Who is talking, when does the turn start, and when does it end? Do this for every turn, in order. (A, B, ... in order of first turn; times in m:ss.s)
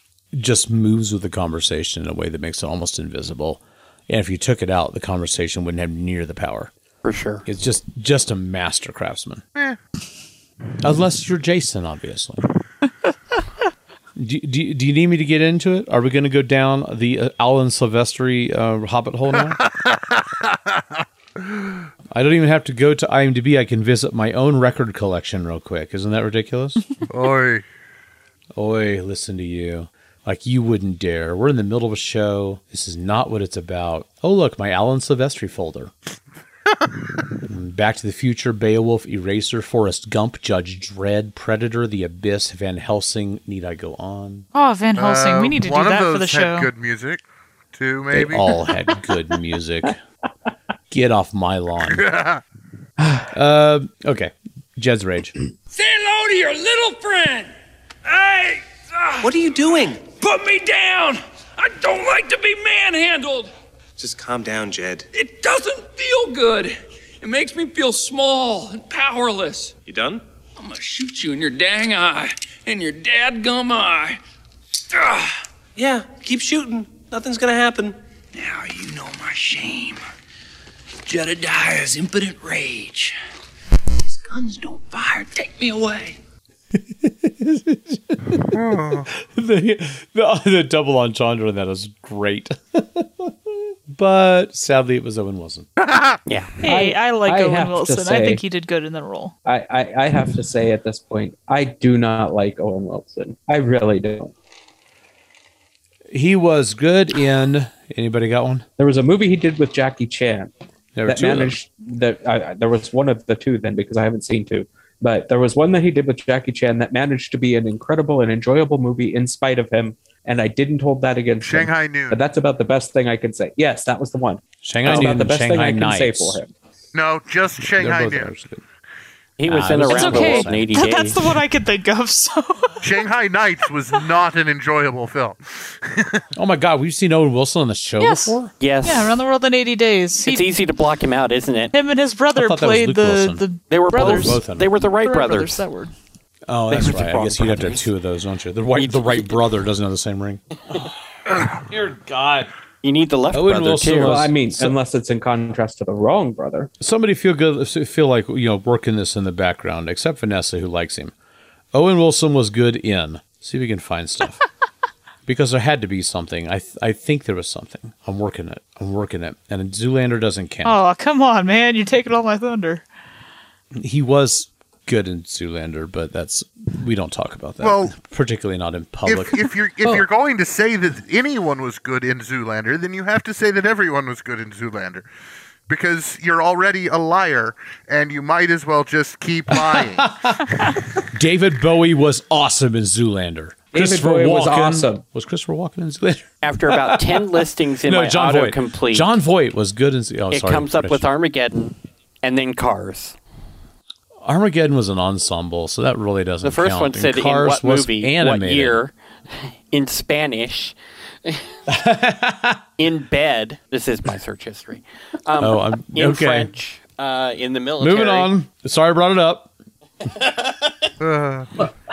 0:00.3-0:06.7 A
0:07.0-0:07.4 B
0:07.4-0:09.4 A
0:10.8-0:12.4 A
0:14.2-0:19.6 A
0:19.4-0:20.8 C
0:22.1-0:26.8 A
0:27.1-0:27.6 C
0:28.5-0:35.9 A
0:37.4-0:44.4 A
0:44.5-0:46.7 D
0:45.0-0:47.2 C
0:47.7-0:48.7 C
0:48.1-0:50.0 A
0:50.9-0:52.0 A
0:51.8-0:52.4 C
0:53.0-0:55.3 A
0:55.7-0:57.5 E
0:58.0-0:59.3 E
0:59.2-1:00.0 F
1:00.0-1:03.5 E
1:04.0-1:05.1 F
1:05.1-1:09.8 E
1:09.9-1:10.2 F
1:10.6-1:14.2 E
1:14.9-1:15.4 E
1:15.8-1:17.9 F
1:18.3-1:20.0 E
1:21.0-1:23.1 E
1:24.0-1:26.2 E
1:26.7-1:33.3 A
1:28.5-1:29.1 C
1:33.9-1:35.7 A
1:35.8-1:36.2 C
1:36.3-1:36.5 B
1:36.6-1:39.3 D
1:36.6-1:38.4 G
1:39.4-1:44.3 G
1:46.1-1:48.6 A
1:48.8-1:50.5 G
1:50.9-1:51.6 A
1:51.1-2:06.5 G
2:01.4-2:02.2 C
2:04.6-2:06.4 A
2:06.9-2:08.3 C
2:07.6-2:08.6 A
2:09.4-2:11.2 B
2:09.5-2:10.8 A
2:09.8-2:12.9 D
2:12.8-2:16.2 C
2:16.4-2:18.5 A
2:18.0-2:20.5 D
2:18.6-2:19.1 B
2:20.2-2:21.7 B
2:21.7-2:24.4 D
2:22.3-2:24.7 A
2:23.7-2:25.6 B
2:24.9-2:25.9 D
2:26.5-2:32.5 A
2:26.7-2:27.8 B
2:28.8-2:29.4 B
2:32.8-2:34.2 B
2:33.3-2:34.8 A
2:34.0-2:36.7 G
2:36.8-2:41.1 A
2:41.7-2:44.4 A
2:45.2-2:50.8 A
2:50.6-2:52.8 D
2:53.7-2:59.5 A
2:57.6-2:57.9 C
2:59.0-3:05.0 C
3:05.7-3:10.1 C
3:09.6-3:10.5 A
3:11.1-3:21.1 A
3:13.7-3:15.0 G
3:16.4-3:19.1 B
3:20.3-3:23.2 B
3:24.2-3:28.8 A
3:26.4-3:31.4 B
3:31.7-3:32.6 A
3:32.8-3:38.3 B
3:35.4-3:36.5 A
3:37.8-3:39.5 A
3:41.0-3:41.5 C